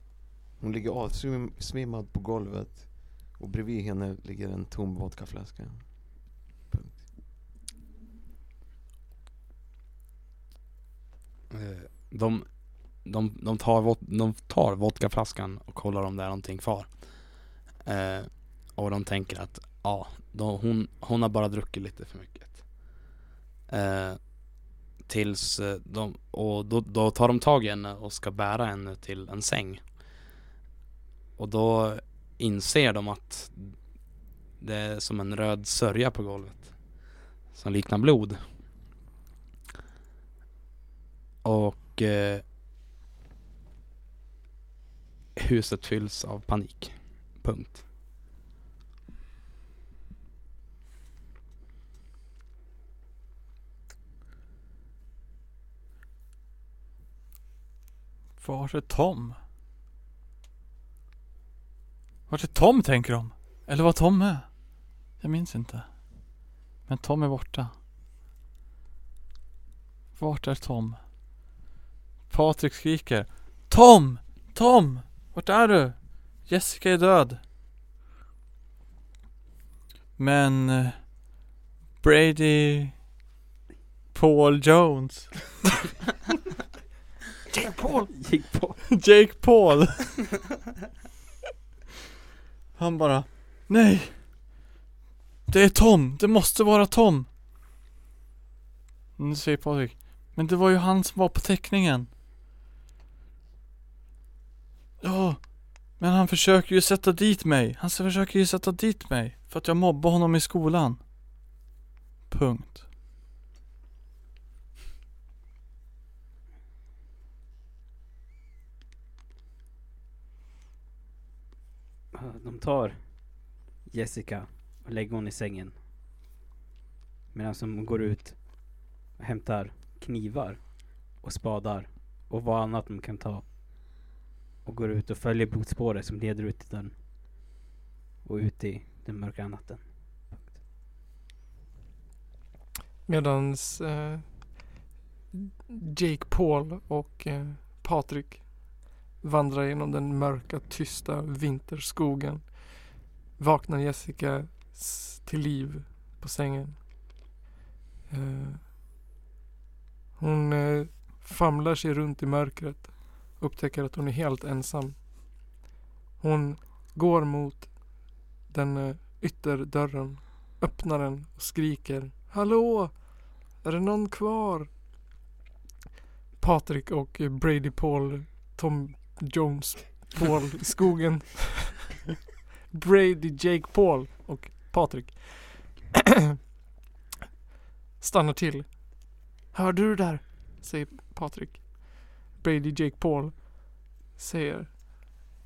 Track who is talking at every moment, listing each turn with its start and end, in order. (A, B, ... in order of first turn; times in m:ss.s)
0:00.6-0:07.1 A
0:11.5-0:23.0 B
0:23.7-0:29.8 B
0:31.4-0:33.8 B
0:34.6-0:36.8 B
0:37.5-0:38.4 B
0:41.4-0:42.4 B
0:45.4-0:47.8 B
0:58.4-0:59.4 C
1:02.3-1:04.6 C
1:05.2-1:05.9 C
1:06.9-1:07.7 C
1:10.2-1:11.0 C
1:12.3-1:17.4 C
1:20.2-1:21.3 C
1:22.0-1:23.0 C
1:24.1-1:25.6 C
1:27.5-1:28.1 D
1:28.1-1:28.8 E
1:28.9-1:30.3 C
1:32.8-1:34.2 C
1:35.5-1:37.3 C
1:39.2-1:42.1 C
1:45.0-1:51.0 C
1:52.3-1:52.8 C
2:02.1-2:05.8 E
2:07.3-2:13.5 E
2:14.6-2:17.0 E
2:18.2-2:20.6 E
2:23.0-2:24.8 D
2:25.3-2:36.8 D
2:38.1-2:38.6 D
2:40.2-2:45.5 D
2:46.2-2:54.7 D
2:56.4-3:01.9 D
3:02.7-3:05.9 D
3:08.0-3:14.9 D